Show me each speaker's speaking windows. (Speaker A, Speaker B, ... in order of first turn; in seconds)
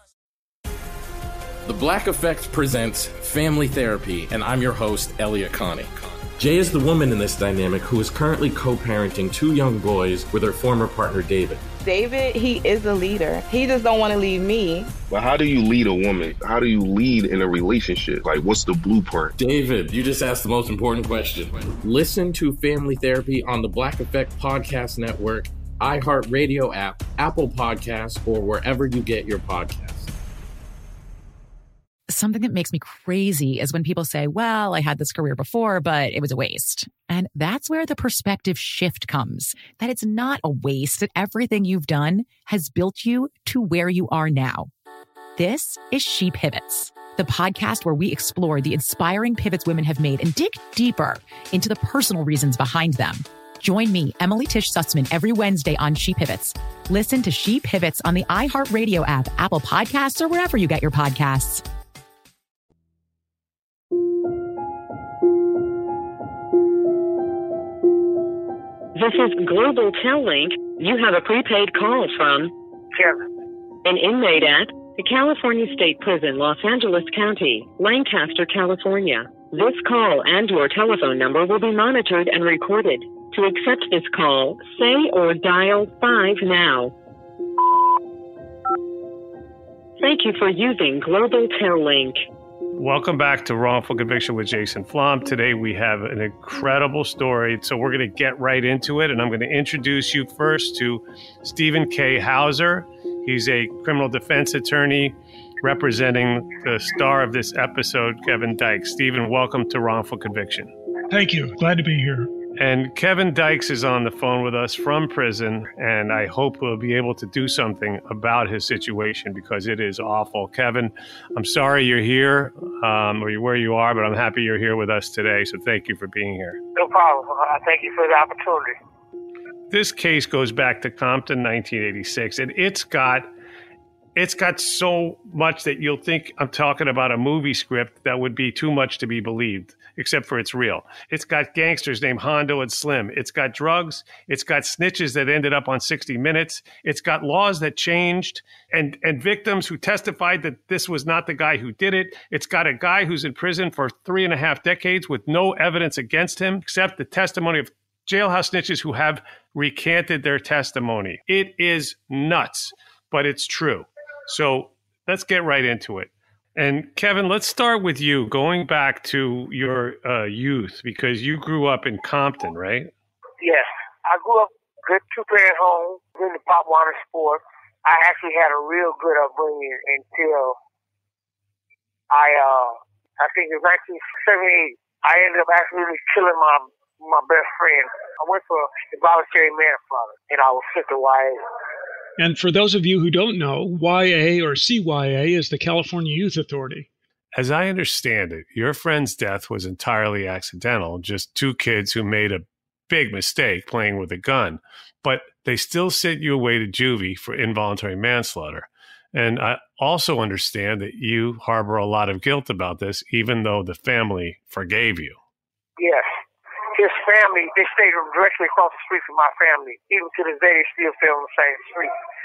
Speaker A: 1.6-11.6, 19.4-30.1
Speaker B: 11.8-14.9
Speaker C: 15.1-19.3
Speaker D: 32.1-44.7, 45.4-61.6
Speaker E: 68.9-72.5, 73.8-86.9, 90.0-92.2
Speaker F: 72.9-73.2, 126.8-128.8, 173.4-180.6, 182.1-191.4, 215.8-216.1, 216.7-221.9
Speaker G: 92.8-110.7, 112.6-126.6, 129.7-133.3, 134.1-172.9, 197.3-215.2
Speaker H: 111.1-112.3, 192.2-196.9